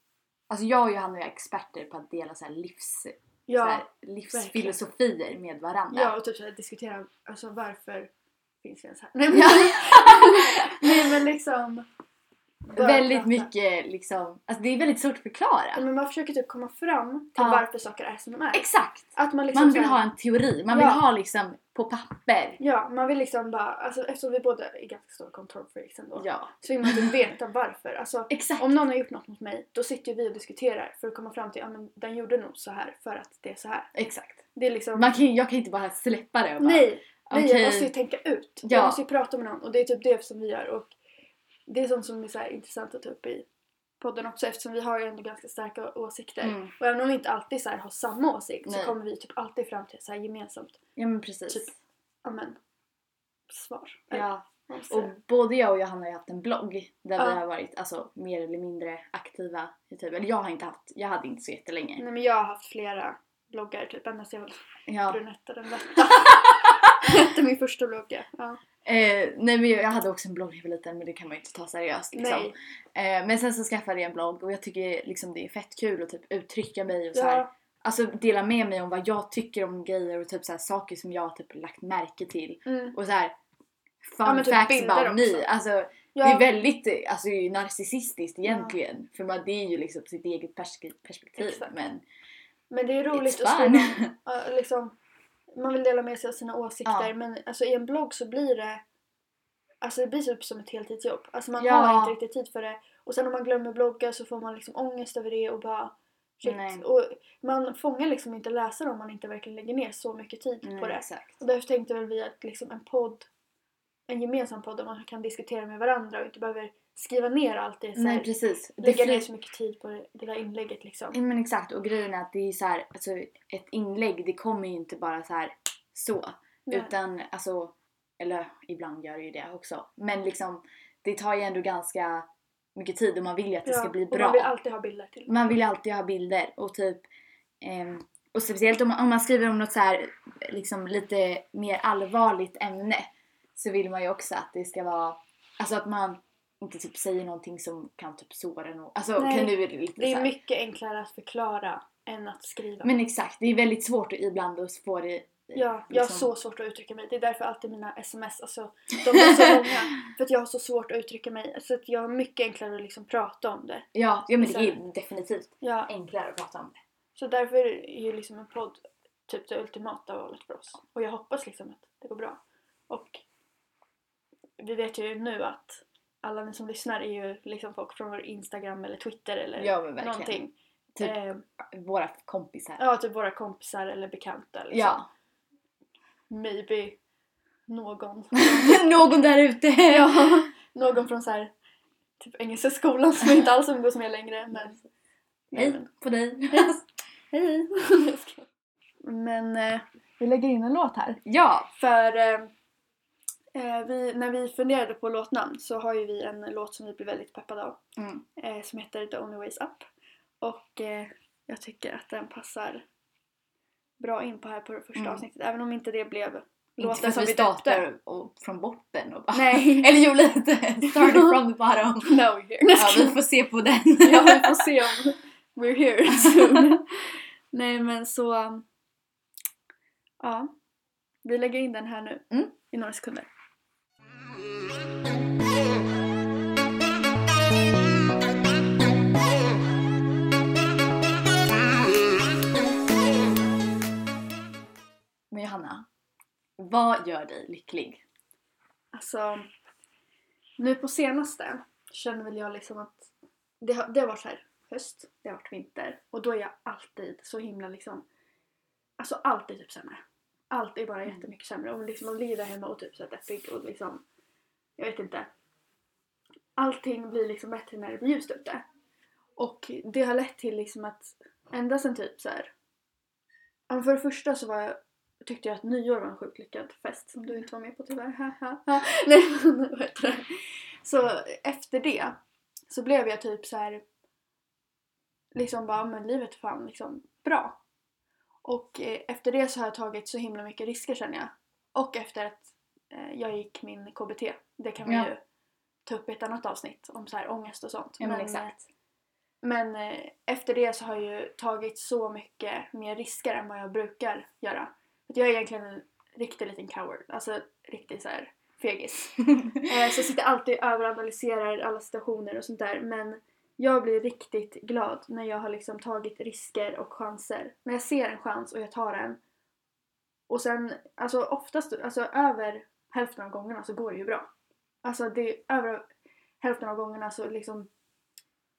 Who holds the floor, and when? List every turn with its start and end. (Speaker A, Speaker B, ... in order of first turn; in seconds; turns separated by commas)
Speaker A: 0.5-6.1, Speaker B: 3.5-4.8, Speaker B: 5.9-8.1, Speaker B: 8.6-11.8, Speaker A: 9.3-11.1, Speaker B: 12.7-13.5, Speaker A: 12.7-15.8, Speaker B: 15.7-18.6, Speaker A: 17.4-17.6, Speaker A: 18.5-22.6, Speaker B: 19.1-20.0, Speaker B: 20.7-21.0, Speaker B: 22.6-33.9, Speaker A: 26.1-27.1, Speaker A: 28.3-28.8, Speaker A: 33.9-34.4, Speaker B: 34.5-35.1, Speaker A: 34.9-37.9, Speaker B: 36.6-40.9, Speaker A: 38.6-39.0, Speaker B: 41.7-43.5, Speaker B: 44.0-50.8, Speaker A: 46.4-46.7, Speaker A: 48.6-48.9, Speaker A: 51.0-51.7, Speaker B: 52.2-52.6, Speaker B: 53.5-55.1, Speaker A: 54.1-62.0, Speaker B: 62.0-68.6, Speaker A: 64.9-65.2, Speaker A: 66.2-66.9, Speaker A: 68.8-83.3, Speaker B: 72.1-72.5, Speaker B: 77.1-77.5, Speaker B: 82.7-83.0, Speaker A: 84.0-92.0, Speaker B: 84.2-85.5, Speaker B: 86.1-86.5, Speaker B: 88.4-88.7, Speaker B: 91.4-91.7, Speaker B: 92.7-94.9, Speaker A: 93.1-94.1, Speaker B: 95.5-98.8, Speaker A: 96.8-97.1, Speaker B: 99.8-113.3, Speaker A: 101.6-102.1, Speaker A: 106.4-106.8, Speaker A: 110.6-111.4, Speaker B: 114.1-118.3, Speaker A: 118.0-119.3, Speaker B: 118.8-121.2, Speaker A: 121.1-134.5, Speaker B: 133.7-135.6, Speaker A: 135.3-137.0, Speaker A: 137.6-150.3, Speaker B: 149.2-152.9, Speaker A: 152.8-156.3, Speaker B: 155.5-163.9, Speaker A: 159.1-159.7, Speaker A: 163.9-166.8, Speaker B: 164.4-164.8, Speaker B: 165.6-165.9, Speaker B: 167.2-173.2, Speaker B: 174.6-181.4, Speaker A: 179.6-180.4, Speaker A: 180.9-182.8, Speaker B: 182.8-185.0, Speaker A: 184.7-185.1, Speaker B: 186.3-187.0, Speaker B: 187.7-189.0, Speaker A: 188.3-190.4, Speaker B: 189.8-191.5, Speaker B: 192.2-194.8, Speaker B: 195.5-195.9, Speaker A: 195.5-196.8, Speaker B: 196.5-196.8, Speaker B: 197.3-198.5, Speaker B: 199.0-201.2, Speaker A: 201.2-201.7, Speaker B: 201.8-202.5, Speaker B: 203.5-207.8, Speaker A: 208.0-208.2, Speaker B: 208.4-209.8, Speaker B: 210.4-212.8, Speaker B: 214.0-217.8, Speaker A: 214.9-215.2, Speaker A: 216.8-222.2, Speaker B: 219.3-219.9, Speaker B: 220.8-221.4, Speaker B: 222.0-223.2, Speaker A: 222.7-224.7, Speaker B: 224.0-228.7, Speaker A: 226.1-226.8, Speaker B: 230.2-230.5, Speaker B: 231.2-233.3, Speaker A: 245.3-245.8, Speaker A: 246.6-248.0, Speaker B: 248.9-249.5, Speaker B: 250.6-258.1, Speaker B: 259.0-264.0, Speaker B: 264.8-265.3, Speaker B: 266.6-268.6, Speaker B: 269.4-272.5, Speaker B: 273.7-282.2, Speaker B: 282.7-283.8, Speaker B: 285.3-287.6, Speaker B: 288.4-295.2, Speaker A: 294.9-295.1, Speaker B: 295.9-298.6, Speaker A: 298.0-298.5, Speaker B: 299.4-319.2, Speaker B: 320.3-324.3, Speaker B: 324.8-325.9, Speaker B: 326.4-327.7